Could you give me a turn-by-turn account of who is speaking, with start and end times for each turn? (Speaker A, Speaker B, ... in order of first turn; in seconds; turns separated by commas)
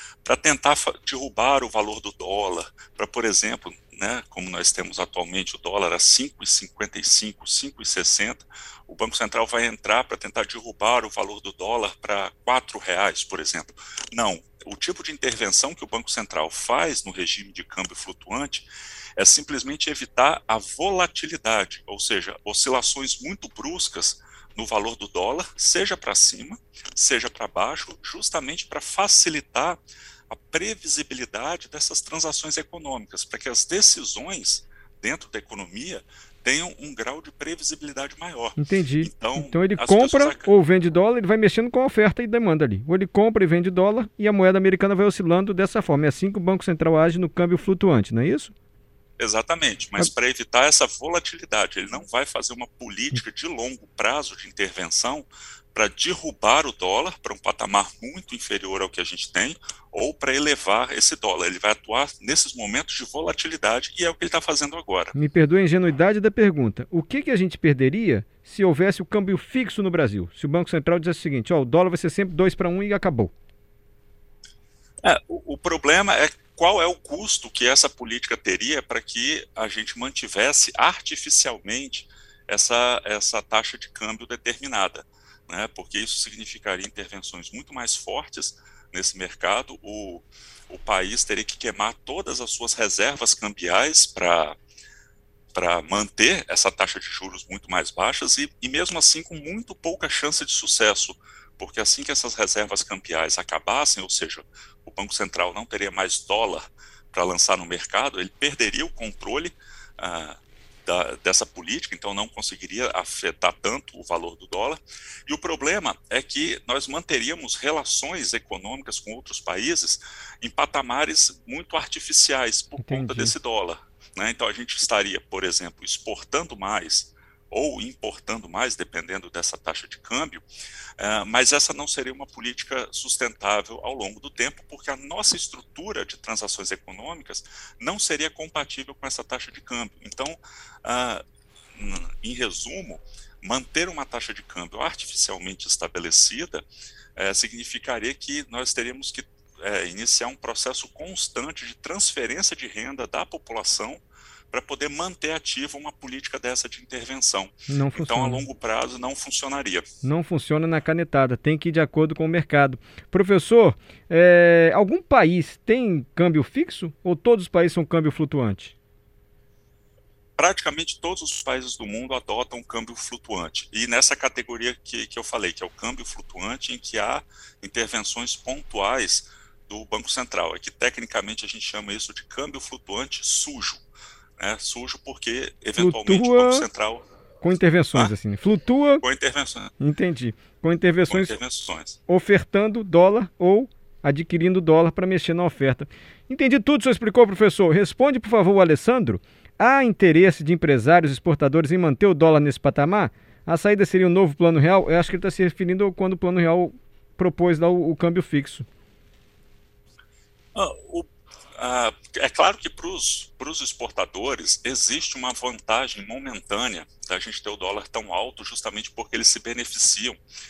Speaker A: 0.2-40.5, Speaker B: 38.6-48.5, Speaker A: 49.2-65.1, Speaker B: 65.1-73.3, Speaker A: 75.0-94.6, Speaker A: 95.5-130.4, Speaker B: 122.8-123.3, Speaker A: 131.0-141.2, Speaker A: 141.7-159.9, Speaker B: 157.7-158.4, Speaker B: 160.0-168.8, Speaker A: 170.4-183.8, Speaker A: 184.4-187.1, Speaker B: 185.8-186.7, Speaker B: 187.4-189.0, Speaker A: 189.0-189.7, Speaker B: 189.8-191.4, Speaker A: 191.1-192.0, Speaker B: 192.1-208.7, Speaker A: 210.6-220.2